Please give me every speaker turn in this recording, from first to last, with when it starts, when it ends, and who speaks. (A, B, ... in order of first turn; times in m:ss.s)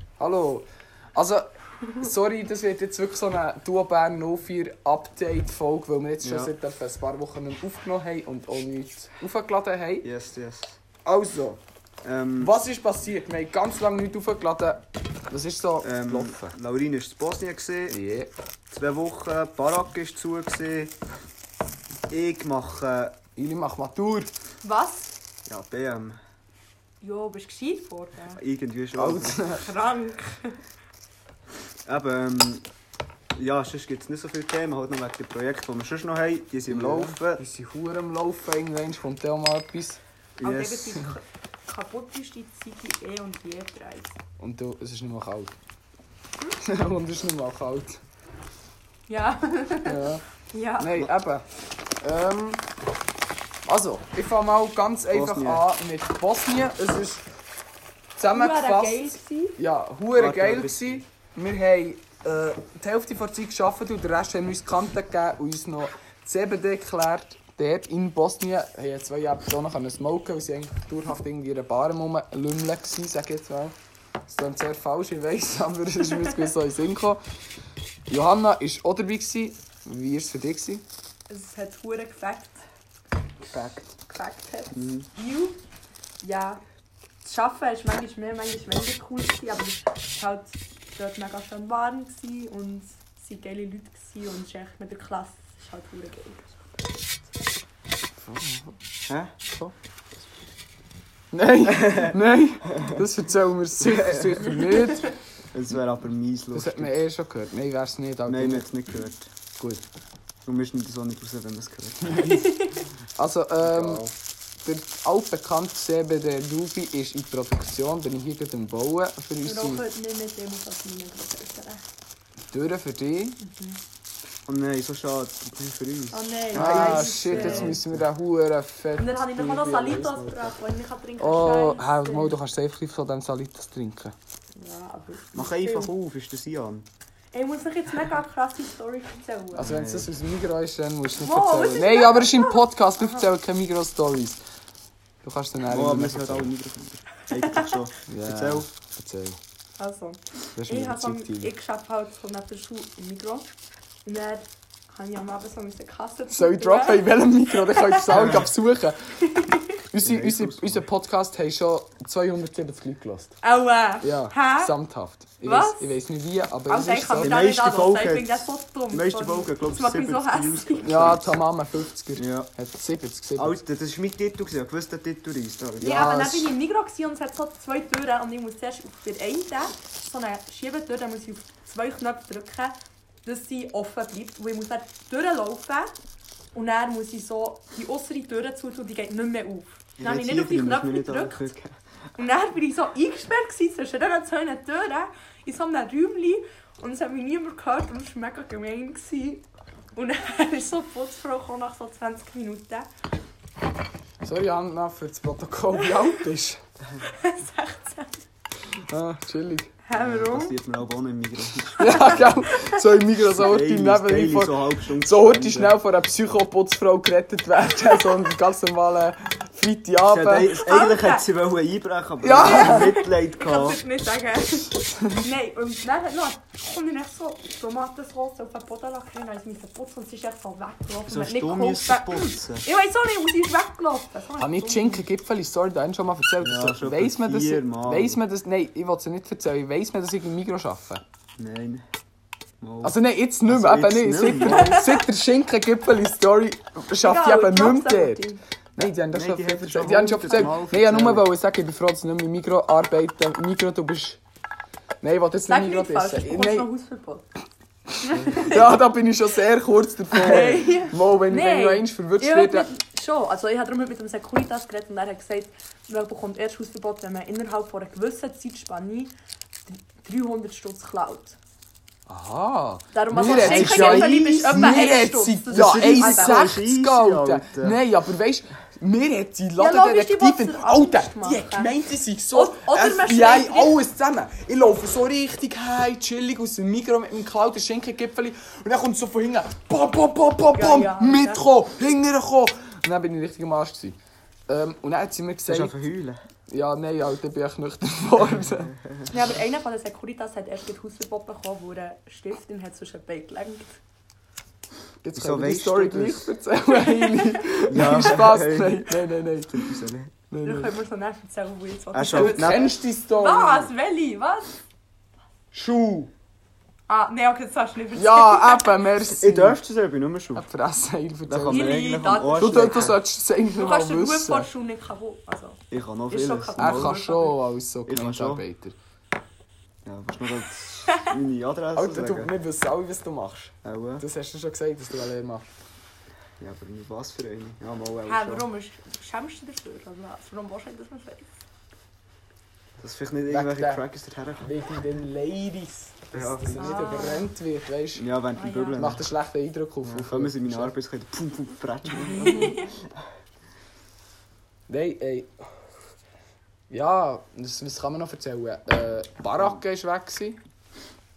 0:00.2-0:01.5 A
0:02.0-0:10.1 A
0:06.2-0:06.5 B
0:10.0-0:10.8 B
0:11.0-0:11.6 A
0:12.0-0:12.5 B
0:12.4-0:16.6 A
0:15.8-0:18.0 B
0:17.9-0:18.3 A
0:18.7-0:20.9 B
0:22.1-0:23.2 B
0:23.4-0:24.3 A
0:24.6-0:25.1 C
0:25.5-0:26.2 B
0:27.0-0:28.4 C
0:28.3-0:29.5 B
0:29.0-0:29.7 A
0:29.6-0:30.6 C
0:31.8-0:32.6 B
0:33.3-0:37.4 B
0:36.7-0:40.0 A
0:40.4-0:40.9 B
0:40.4-0:44.2 C
0:44.4-0:45.5 A
0:46.6-0:48.0 A
0:49.1-0:51.0 C
0:49.8-0:50.2 A
0:50.8-0:51.4 A
0:52.0-0:52.6 A
0:53.6-0:57.2 A
0:55.1-0:55.6 B
0:58.2-1:13.7 A
0:58.3-0:59.6 C
1:00.2-1:01.0 B
1:14.2-1:17.2 A
1:18.1-1:20.8 A
1:21.3-1:22.6 C
1:23.4-1:24.0 B
1:24.1-1:25.6 C
1:24.7-1:25.1 B
1:26.2-1:26.6 C
1:27.2-1:37.0 C
1:38.2-1:38.8 A
1:39.1-1:39.3 B
1:39.5-1:39.7 A
1:41.3-1:45.1 A
1:43.8-1:44.5 B
1:45.5-1:47.0 B
1:46.5-1:48.7 A
1:48.2-1:49.3 B
1:50.4-1:52.4 B
1:52.2-1:52.8 C
1:53.2-1:54.1 A
1:53.6-1:54.1 B
1:54.6-1:59.8 A
1:59.4-2:01.8 C
2:02.5-2:03.4 A
2:03.4-2:03.8 C
2:04.4-2:08.0 B
2:06.1-2:07.8 C
2:06.5-2:10.5 A
2:09.0-2:12.4 C
2:11.2-2:14.1 A
2:14.5-2:15.9 C
2:15.3-2:16.9 B
2:17.3-2:19.7 C
2:19.5-2:24.4 A
2:19.6-2:20.1 B
2:21.2-2:23.3 C
2:25.2-2:26.5 A
2:25.7-2:28.7 B
2:27.3-2:27.6 C
2:28.1-2:29.4 A
2:29.8-2:33.5 C
2:30.6-2:31.5 A
2:34.0-2:38.3 C
2:36.3-2:39.1 A
2:38.1-2:38.4 B
2:39.2-2:39.8 C
2:39.9-2:43.3 A
2:40.0-2:40.9 B
2:43.4-2:44.8 C
2:44.0-2:47.4 A
2:45.4-2:46.0 C
2:46.7-2:50.9 C
2:47.2-2:51.4 B
2:50.8-2:53.6 A
2:52.2-2:52.5 B
2:53.3-2:56.0 B
2:55.8-3:02.7 C
2:55.9-2:56.5 A
3:03.2-3:06.0 C
3:06.5-3:11.5 C
3:10.0-3:11.7 B
3:12.2-3:22.9 C
3:24.2-3:26.6 A
3:25.8-3:26.2 C
3:27.0-3:28.2 C
3:28.9-3:29.7 A
3:29.8-3:30.5 C
3:29.9-3:32.3 B
3:31.8-3:32.8 C
3:31.8-3:40.5 A
3:33.4-3:35.8 B
3:40.1-3:43.8 B
3:40.5-3:41.3 C
3:42.2-3:42.9 A
3:42.3-3:55.1 C
3:51.1-3:52.7 B
3:54.4-4:01.0 A
3:56.4-3:58.2 B
4:01.4-4:01.8 B
4:02.6-4:02.9 B
4:02.8-4:08.2 A
4:03.4-4:04.8 B
4:04.4-4:05.0 C
4:07.0-4:08.4 C
4:08.8-4:14.2 A
4:09.1-4:11.2 B
4:15.0-4:16.7 A
4:15.4-4:17.2 C
4:18.0-4:18.8 C
4:18.1-4:18.6 B
4:18.4-4:22.7 A
4:20.1-4:29.1 C
4:29.6-4:31.4 C
4:32.1-4:54.0 A
4:32.9-4:36.6 C
4:33.3-4:34.8 B
4:35.5-4:37.8 B
4:39.6-4:41.7 C
4:42.3-4:43.8 C
4:50.5-4:51.4 C
4:54.5-4:55.8 A
4:55.5-4:56.2 B
4:56.5-4:58.7 A
4:58.4-4:59.1 B
4:59.1-5:03.8 C
5:05.0-5:09.8 A
5:05.1-5:06.3 B
5:06.7-5:07.4 C
5:07.7-5:10.2 B
5:10.3-5:10.7 A
5:10.4-5:14.6 C
5:11.9-5:12.8 B
5:12.1-5:13.7 A
5:15.5-5:16.1 A
5:16.9-5:18.9 C
5:18.0-5:19.6 A
5:19.2-5:20.4 B
5:20.3-5:21.9 A
5:21.3-5:23.0 B
5:21.5-5:22.9 C
5:22.4-5:24.5 A
5:23.5-5:27.4 C
5:25.7-5:27.0 B
5:26.6-5:28.8 A
5:27.9-5:28.4 B
5:29.8-5:32.3 B
5:31.8-5:35.4 A
5:33.6-5:34.0 B
5:36.4-5:38.4 B
5:38.0-5:41.4 C
5:42.8-5:44.5 B
5:43.3-5:43.8 A
5:44.4-5:48.1 A
5:46.1-5:46.9 B
5:46.4-5:47.3 C
5:48.0-5:49.0 B
5:48.3-5:48.9 C
5:48.8-5:50.8 A
5:49.8-5:52.7 B
5:52.2-5:52.7 C
5:54.7-5:55.3 A
5:56.7-6:00.4 A